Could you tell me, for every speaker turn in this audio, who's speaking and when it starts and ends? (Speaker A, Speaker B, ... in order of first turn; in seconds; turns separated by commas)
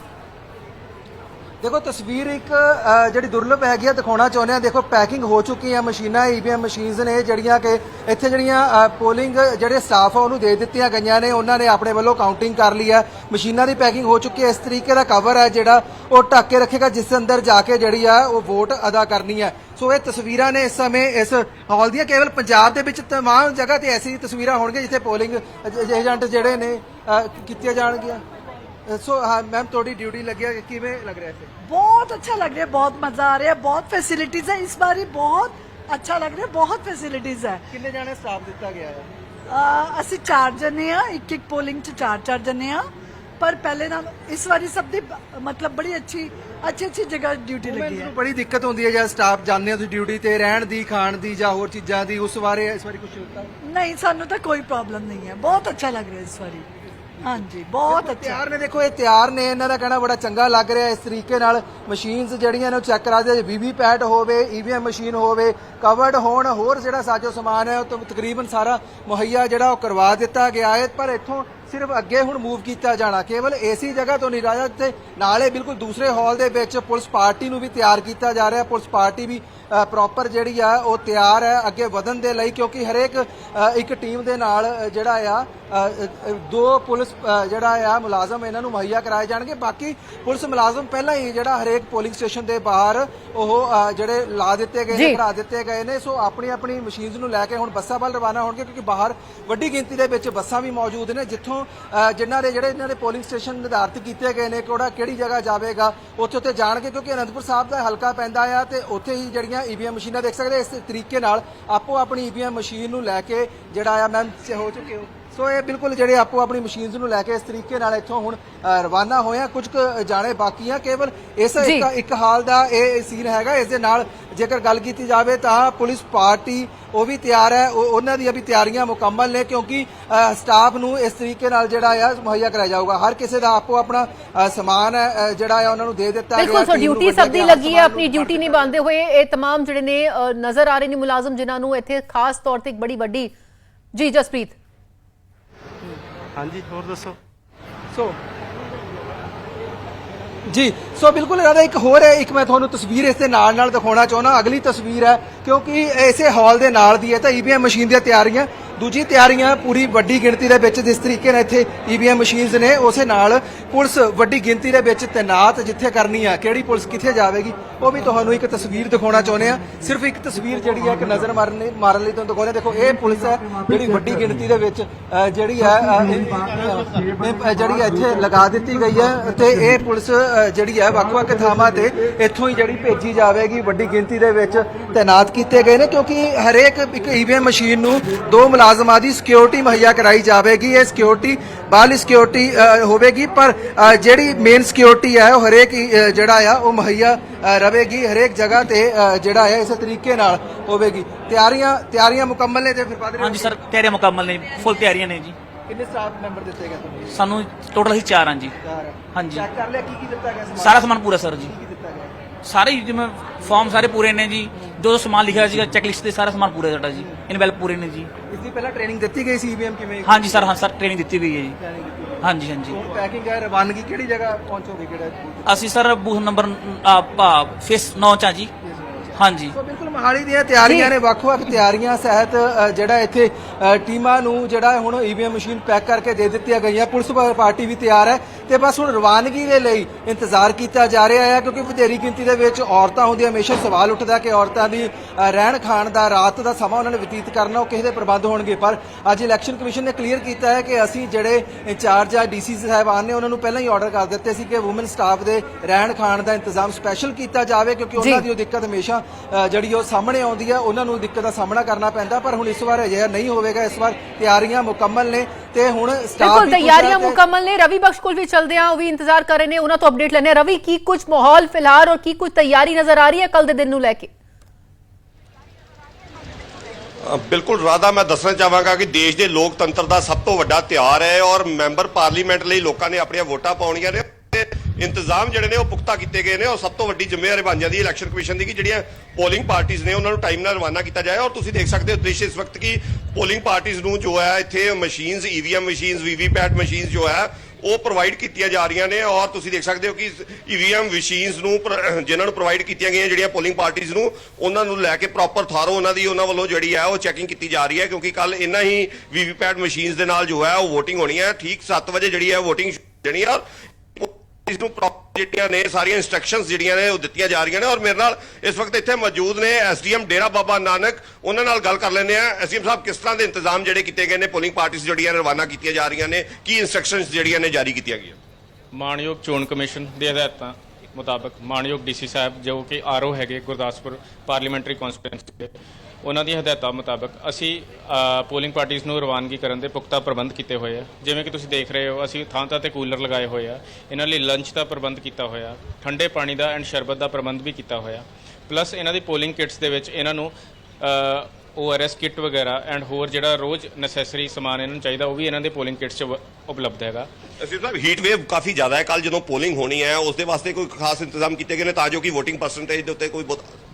Speaker A: 1.6-28.2, Speaker A: 28.9-31.5, Speaker B: 31.6-37.6, Speaker A: 37.7-39.1, Speaker B: 39.5-42.9, Speaker B: 43.4-48.1, Speaker A: 47.6-53.5, Speaker B: 53.6-56.7, Speaker B: 57.2-58.4, Speaker A: 57.8-138.8, Speaker C: 121.6-121.9, Speaker C: 136.4-143.3, Speaker C: 143.9-144.6, Speaker A: 150.5-203.6, Speaker D: 203.2-205.3, Speaker A: 205.7-207.3, Speaker D: 207.1-208.5, Speaker A: 208.6-212.2, Speaker D: 209.1-209.4, Speaker D: 210.6-211.5, Speaker D: 212.4-218.1, Speaker A: 217.0-217.2, Speaker A: 218.3-220.5, Speaker D: 220.0-221.6, Speaker A: 221.6-225.6, Speaker D: 222.2-222.8, Speaker D: 225.5-228.5, Speaker A: 228.7-267.2, Speaker D: 229.2-229.5, Speaker C: 230.6-230.9, Speaker C: 258.0-258.2, Speaker C: 266.2-274.1, Speaker E: 277.1-313.4, Speaker E: 313.9-328.2, Speaker F: 328.7-335.5, Speaker F: 336.0-357.1, Speaker E: 357.4-363.6